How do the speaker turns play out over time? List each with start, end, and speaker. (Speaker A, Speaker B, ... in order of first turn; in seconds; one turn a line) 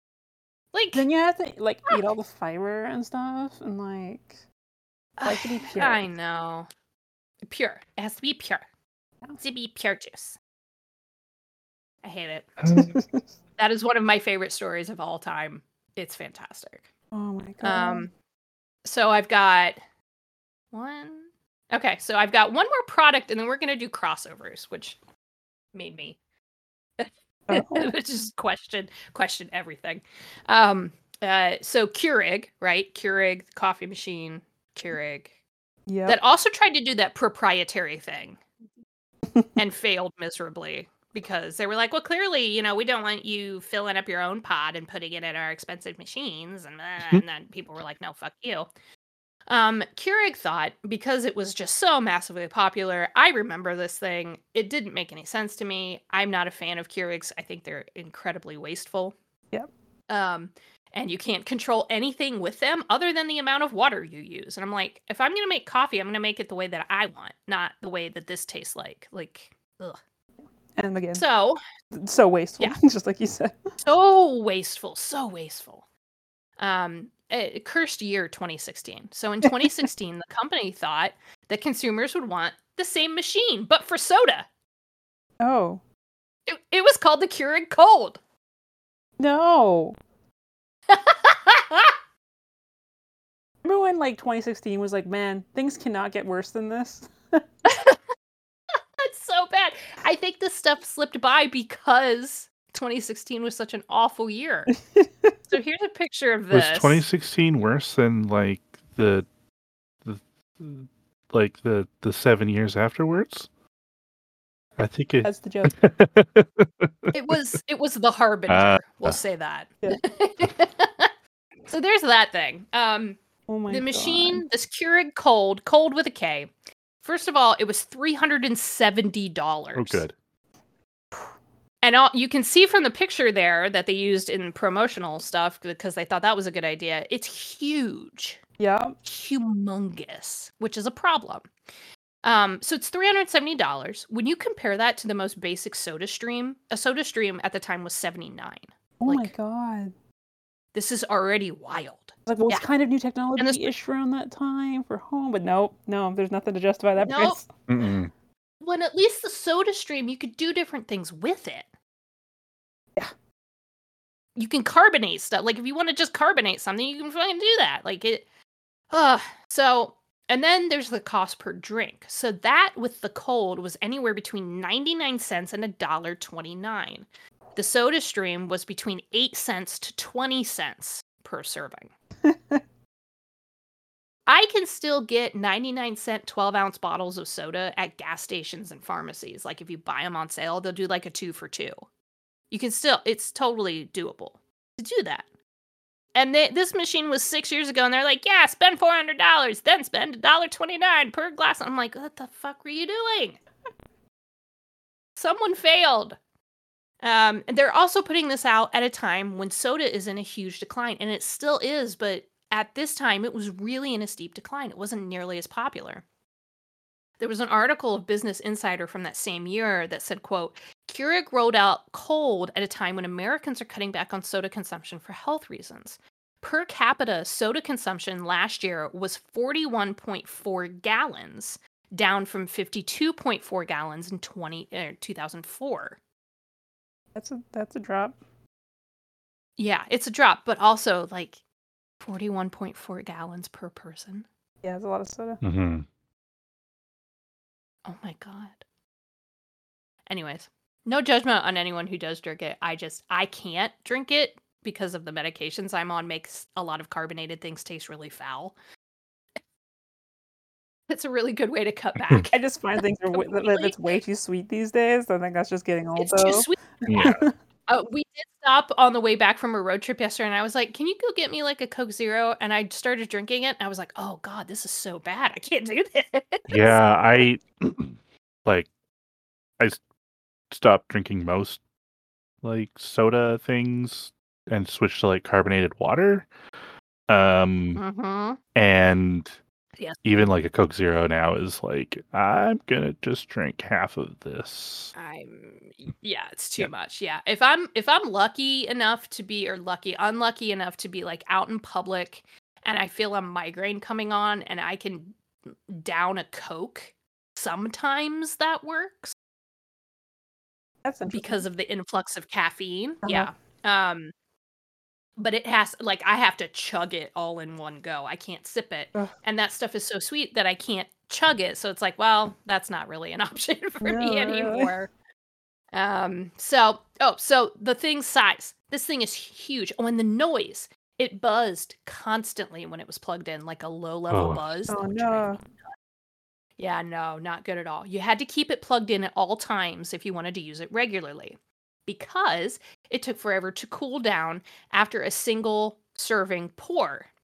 Speaker A: 0.7-1.0
Speaker B: 0.9-4.4
Speaker A: 5.2-6.7
Speaker B: 5.2-6.1
Speaker A: 7.4-8.6
Speaker A: 9.4-10.4
Speaker A: 12.0-12.5
Speaker C: 12.6-12.9
Speaker B: 12.7-13.2
Speaker A: 13.6-16.9
Speaker B: 17.1-18.1
Speaker A: 17.6-18.1
Speaker A: 18.9-19.8
Speaker A: 20.7-25.0
Speaker A: 25.7-26.2
Speaker A: 27.0-35.3
Speaker B: 27.5-27.9
Speaker B: 35.9-36.2
Speaker A: 36.1-38.4
Speaker A: 39.6-48.7
Speaker A: 49.5-59.1
Speaker A: 60.1-70.0
Speaker B: 70.8-71.2
Speaker A: 71.1-71.6
Speaker B: 71.9-73.6
Speaker A: 73.8-75.8
Speaker A: 76.6-84.5
Speaker B: 79.5-79.7
Speaker B: 85.4-85.8
Speaker A: 86.5-88.2
Speaker B: 89.2-90.0
Speaker A: 90.9-92.0
Speaker B: 93.6-97.4
Speaker A: 97.7-98.0
Speaker A: 99.0-104.7
Speaker B: 104.9-105.4
Speaker A: 105.5-107.0
Speaker C: 106.5-109.3
Speaker C: 110.0-113.5
Speaker C: 114.8-117.1
Speaker B: 115.2-115.8
Speaker A: 117.1-121.1
Speaker C: 118.5-119.2
Speaker A: 121.7-123.2
Speaker B: 123.5-124.4
Speaker A: 123.7-126.5
Speaker A: 127.0-130.0
Speaker C: 129.8-130.1
Speaker A: 131.8-138.4
Speaker B: 138.6-138.9
Speaker A: 139.1-141.5
Speaker A: 142.2-149.3
Speaker B: 149.0-149.9
Speaker A: 150.7-152.7
Speaker B: 152.3-157.5
Speaker A: 153.4-153.7
Speaker A: 157.0-157.4
Speaker C: 157.7-158.1
Speaker A: 158.6-161.7
Speaker A: 164.4-168.3
Speaker A: 168.9-181.9
Speaker B: 182.2-182.6
Speaker A: 184.3-191.8
Speaker A: 192.5-195.2
Speaker A: 196.2-203.4
Speaker A: 205.2-206.2
Speaker A: 207.0-216.0
Speaker A: 217.2-236.0
Speaker B: 237.2-238.2
Speaker A: 239.6-241.4
Speaker A: 242.0-244.3
Speaker B: 244.6-245.4
Speaker C: 245.4-245.9
Speaker A: 247.8-248.6
Speaker A: 250.1-258.6
Speaker A: 260.9-262.4
Speaker B: 262.3-267.3
Speaker A: 263.1-264.0
Speaker A: 266.0-266.6
Speaker C: 266.9-267.2
Speaker A: 267.7-276.8
Speaker C: 276.5-278.7
Speaker C: 280.5-281.6
Speaker C: 282.4-286.3
Speaker C: 287.1-287.8
Speaker A: 287.8-288.4
Speaker C: 288.6-289.4
Speaker C: 290.0-294.9
Speaker A: 294.9-309.1
Speaker B: 310.8-311.4
Speaker A: 311.1-314.1
Speaker B: 313.0-313.3
Speaker A: 315.2-324.9
Speaker B: 323.8-324.7
Speaker A: 325.7-335.6
Speaker C: 334.1-334.4
Speaker B: 334.7-335.4
Speaker A: 336.6-347.1